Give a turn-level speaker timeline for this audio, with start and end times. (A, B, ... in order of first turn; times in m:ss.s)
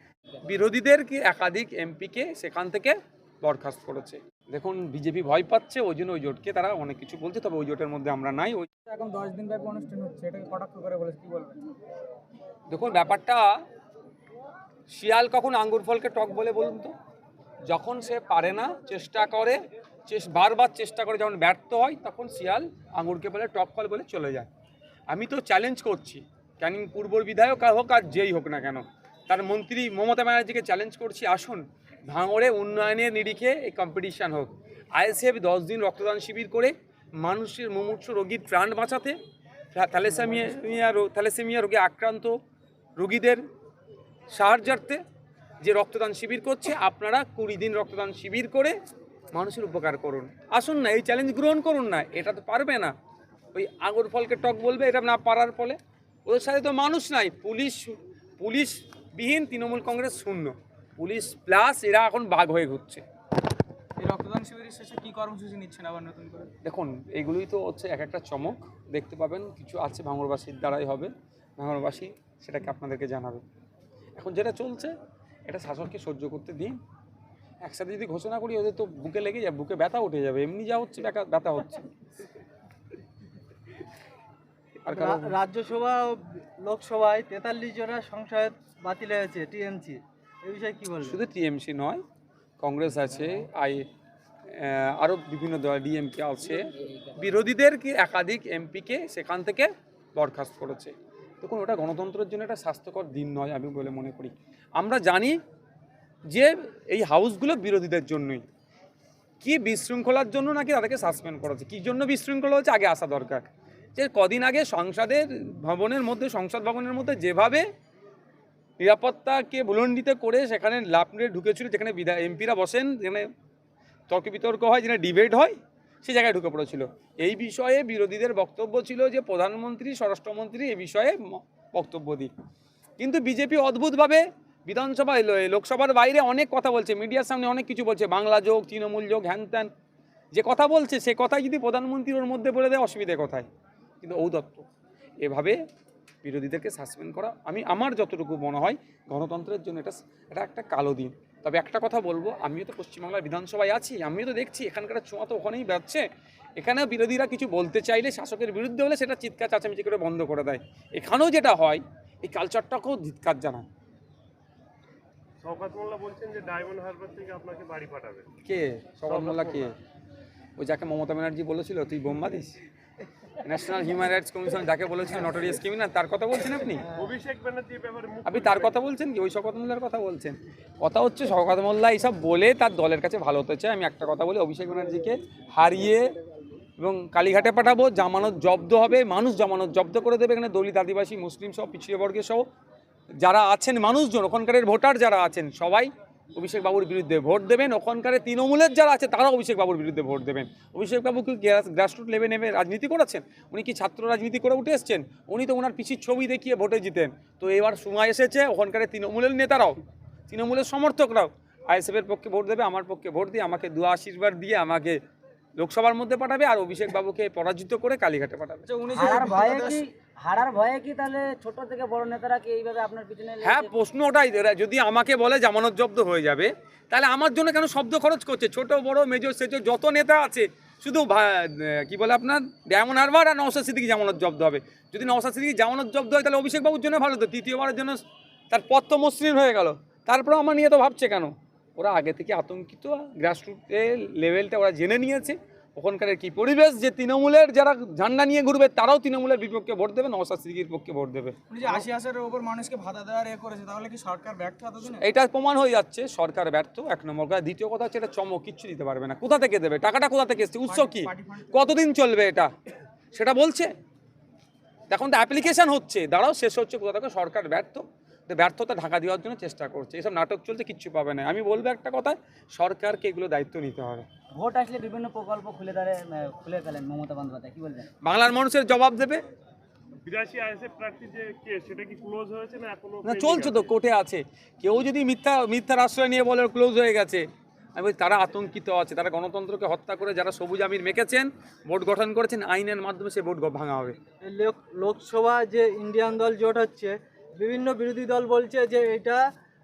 0:00.4-0:08.7 A
0:08.8-0:11.6 B
0:12.7-0:13.5 A
0:14.9-0:16.9 A
0:17.7-0:24.5 A
0:25.1-0:39.2 A
0:39.7-0:42.4 A
0:43.0-0:43.4 A
0:44.3-0:45.0 A
0:45.6-0:48.8 A
0:49.3-0:52.9 A
0:53.5-1:03.0 A
1:04.0-1:06.5 B
1:06.6-1:13.4 A
1:14.2-1:15.0 A
1:15.5-1:16.8 A
1:17.6-1:21.9 A
1:24.8-1:25.3 A
1:24.9-1:31.2 C
1:31.0-1:32.0 A
1:32.6-1:33.9 A
1:34.5-1:45.4 A
1:46.3-1:48.4 A
1:49.4-1:57.7 A
1:58.8-2:03.3 A
2:04.1-2:12.3 A
2:13.0-2:19.7 A
2:20.3-2:23.5 A
2:24.0-2:24.7 A
2:25.2-2:25.6 A
2:26.2-2:36.0 A
2:36.6-2:43.6 A
2:45.4-2:48.3 D
2:48.4-2:49.7 A
2:49.1-2:49.7 D
2:50.6-2:52.5 A
2:53.3-2:56.9 A
2:56.9-2:58.8 D
2:58.2-3:06.1 A
3:06.8-3:12.4 A
3:13.2-3:35.0 A
3:35.6-3:38.7 A
3:38.6-3:39.8 B
3:38.9-3:43.7 E
3:43.4-4:11.4 A
4:11.5-4:15.0 B
4:14.8-4:22.5 A
4:20.6-4:21.5 B
4:23.1-4:23.7 A
4:24.9-4:34.1 A
4:34.3-4:37.9 E
4:38.0-4:39.2 A
4:40.0-4:43.7 D
4:43.0-4:54.0 A
4:54.2-4:59.2 C